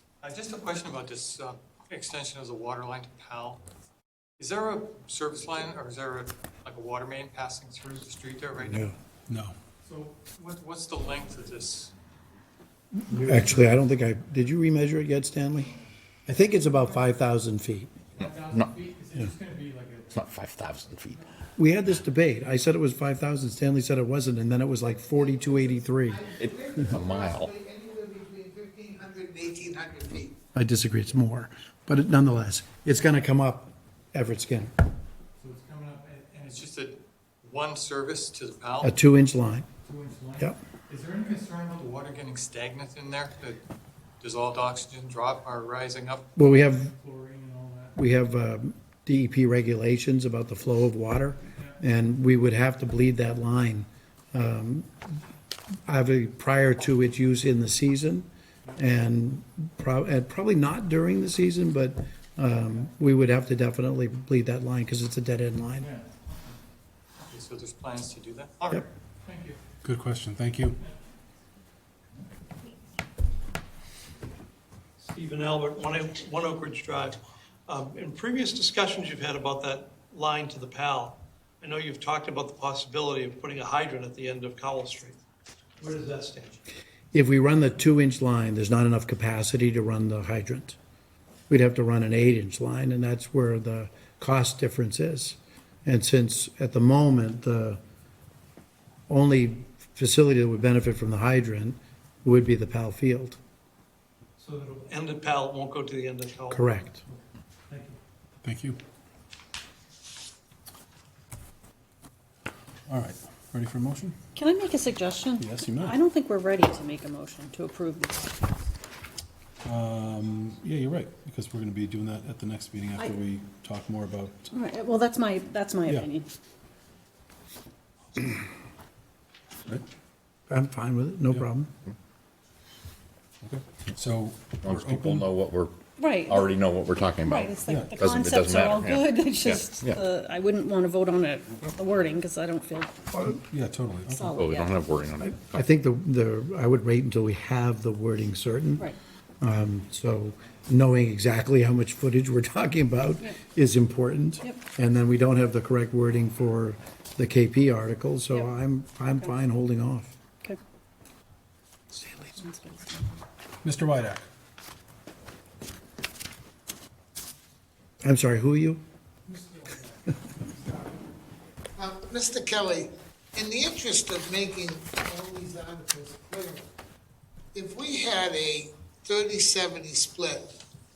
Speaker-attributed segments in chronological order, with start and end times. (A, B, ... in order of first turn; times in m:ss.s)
0:00.2-0:03.6 A
0:04.4-0:08.9 A
0:08.6-0:08.9 B
0:09.3-0:09.5 C
0:09.8-0:11.9 A
0:13.0-0:15.7 B
0:13.2-0:13.8 A
0:16.2-0:17.9 B
0:18.1-0:20.2 A
0:20.1-0:21.2 D
0:21.6-0:26.9 B
0:25.1-0:30.3 E
0:26.4-0:27.5 D
0:30.5-0:34.7 B
0:35.4-0:38.9 A
0:38.8-0:39.7 B
0:39.8-0:43.6 A
0:44.2-0:47.9 A
0:46.4-0:46.9 B
0:48.0-0:55.1 B
0:55.9-1:05.9 B
1:05.8-1:06.1 A
1:07.3-1:09.6 A
1:09.8-1:10.8 C
1:15.0-1:25.2 F
1:25.8-1:26.6 F
1:27.1-1:30.8 B
1:31.5-1:37.8 B
1:39.1-1:43.4 B
1:44.4-1:48.0 F
1:46.5-1:47.0 B
1:48.4-1:48.8 C
1:52.9-1:54.1 C
1:54.3-1:58.6 G
1:55.4-1:55.9 C
1:59.6-2:04.4 C
2:04.5-2:06.3 G
2:10.5-2:11.7 B
2:13.4-2:15.2 C
2:14.6-2:15.7 D
2:16.0-2:16.5 G
2:16.3-2:19.0 D
2:17.2-2:22.9 G
2:17.7-2:17.9 C
2:19.6-2:19.9 D
2:23.2-2:24.4 C
2:24.1-2:24.8 G
2:24.4-2:25.3 D
2:25.2-2:28.9 B
2:29.4-2:40.1 B
2:42.3-2:43.2 G
2:43.6-2:44.2 C
2:48.0-2:48.8 B
2:51.8-2:56.7 E
2:57.5-3:00.5 E